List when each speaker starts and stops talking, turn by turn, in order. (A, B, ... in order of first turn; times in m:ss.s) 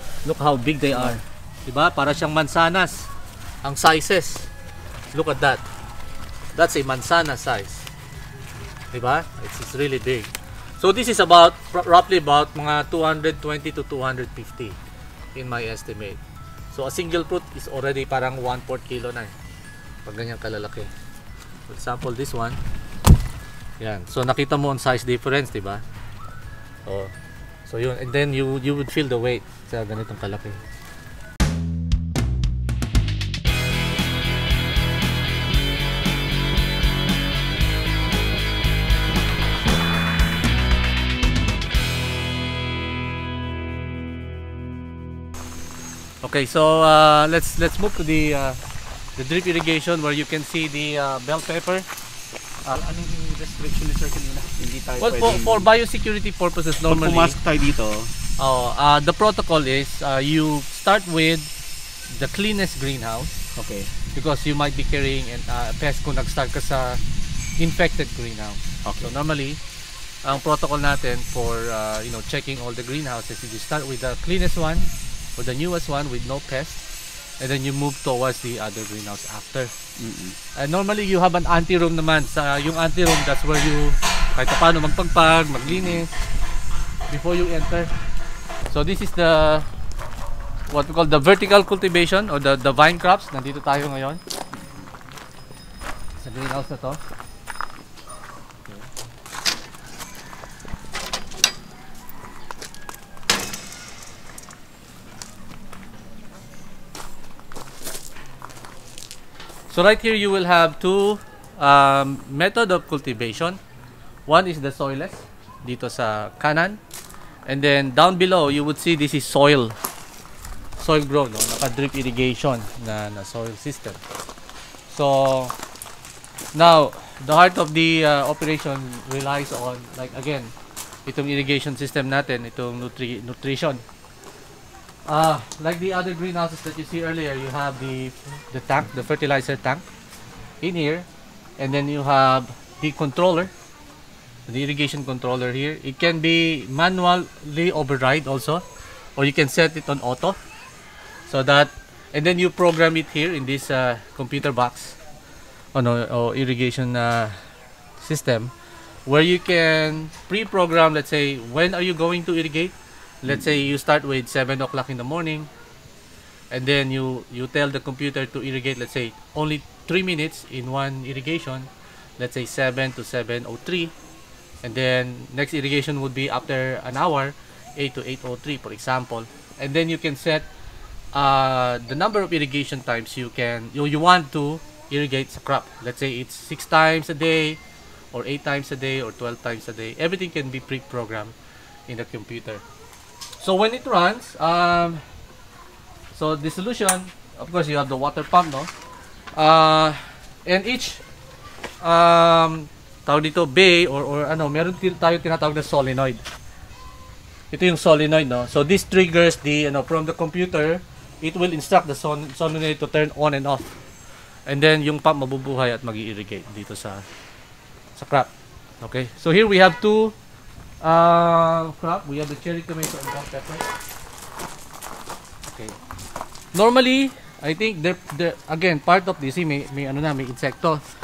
0:00.2-0:03.1 A
0:03.6-0:04.5 A
0:05.1-0:05.6 A
0:06.5-0:07.9 A
0:08.9-0:14.8 A
0:15.3-0:16.2 A
0:16.7-0:19.3 A
0:20.0-0:20.9 A
0:21.7-0:22.6 A
0:23.8-0:25.8 A
0:26.8-0:27.1 A
0:27.7-0:30.6 A
0:46.2-0:48.6 A
0:49.2-0:51.8 A
0:54.5-0:55.7 B
0:55.0-0:57.4 A
0:56.8-0:58.1 B
0:58.4-1:01.5 A
1:02.1-1:03.4 A
1:03.5-1:03.9 B
1:04.1-1:07.0 A
1:07.6-1:09.6 A
1:08.8-1:09.1 B
1:10.2-1:16.8 A
1:17.4-1:19.7 A
1:20.0-1:20.4 B
1:20.6-1:26.2 A
1:27.1-1:27.9 A
1:28.7-1:29.7 A
1:30.7-1:34.2 A
1:36.2-1:37.0 A
1:49.7-1:53.6 A
1:54.3-1:56.8 A
1:57.4-1:59.7 A
2:00.8-2:04.0 A
2:04.9-2:05.5 A
2:06.5-2:10.5 A
2:11.0-2:13.8 A
2:15.1-2:19.8 A
2:20.6-2:21.0 A
2:21.6-2:23.5 A
2:24.5-2:28.6 A
2:29.2-2:30.4 A
2:31.3-2:35.0 A
2:35.7-2:37.4 A
2:38.0-2:38.5 A
2:39.1-2:45.5 A
2:46.5-2:53.9 A
2:54.6-3:00.5 A
3:01.1-3:07.6 A
3:08.1-3:11.3 A
3:11.9-3:12.6 A
3:13.4-3:15.0 A
3:16.1-3:18.7 A
3:19.3-3:21.0 A
3:21.8-3:26.2 A
3:27.5-3:33.8 A
3:34.4-3:37.0 A
3:38.0-3:38.3 A
3:38.8-3:40.1 A
3:40.8-3:43.6 A
3:45.5-3:45.7 A
3:46.5-3:50.8 A